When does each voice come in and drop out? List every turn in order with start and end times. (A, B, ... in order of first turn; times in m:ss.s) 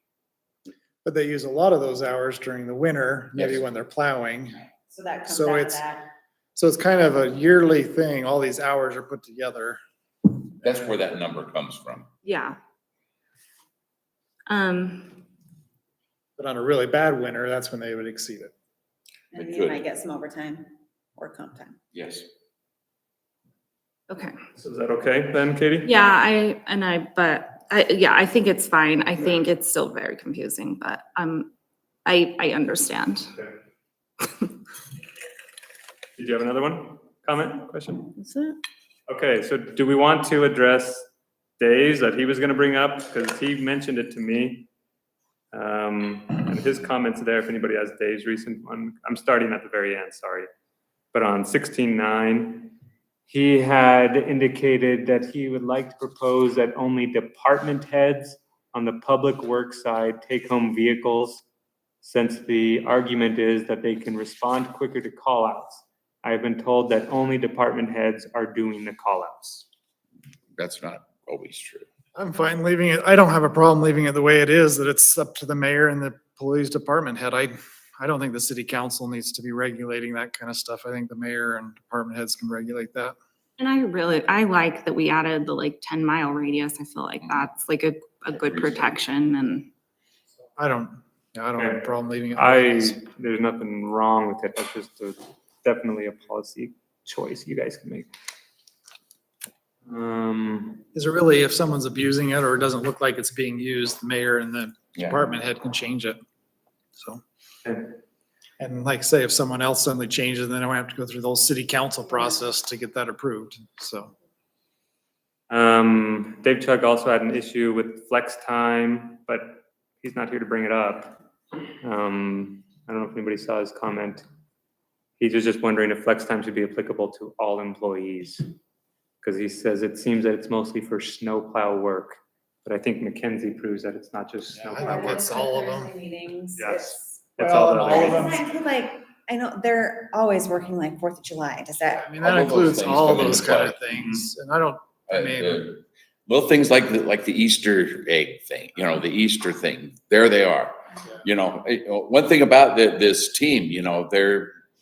0:01.0-0:04.6 A
0:03.3-0:03.6 B
0:04.9-0:06.1 C
0:05.3-0:05.8 A
0:06.6-0:09.8 A
0:10.6-0:12.1 B
0:12.2-0:12.6 D
0:14.5-0:15.2 D
0:16.4-0:18.5 A
0:19.3-0:21.8 C
0:19.4-0:19.8 B
0:21.9-0:22.2 B
0:24.1-0:24.4 D
0:24.5-0:25.9 E
0:25.8-0:31.5 D
0:32.0-0:33.4 D
0:34.2-0:34.5 D
0:36.2-0:38.1 E
0:38.2-0:38.6 D
0:39.1-0:41.0 E
0:41.6-0:44.7 E
0:45.5-0:50.5 E
0:51.1-0:52.7 E
0:53.3-1:01.4 E
1:02.0-1:09.6 E
1:10.6-1:11.9 B
1:12.1-1:23.2 A
1:23.6-1:29.7 D
1:28.4-1:28.9 B
1:30.6-1:33.0 A
1:31.6-1:38.1 E
1:39.9-1:40.8 E
1:40.9-1:46.2 A
1:47.0-1:47.2 A
1:47.6-1:47.9 E
1:48.6-1:54.1 A
1:55.5-2:01.2 E
2:01.8-2:04.2 E
2:05.2-2:08.5 E
2:09.2-2:15.2 E
2:14.5-2:15.9 A
2:14.8-2:17.2 C
2:16.6-2:18.4 E
2:17.4-2:18.4 A
2:17.9-2:22.1 C
2:21.9-2:25.7 A
2:22.2-2:23.8 B
2:25.1-2:34.6 B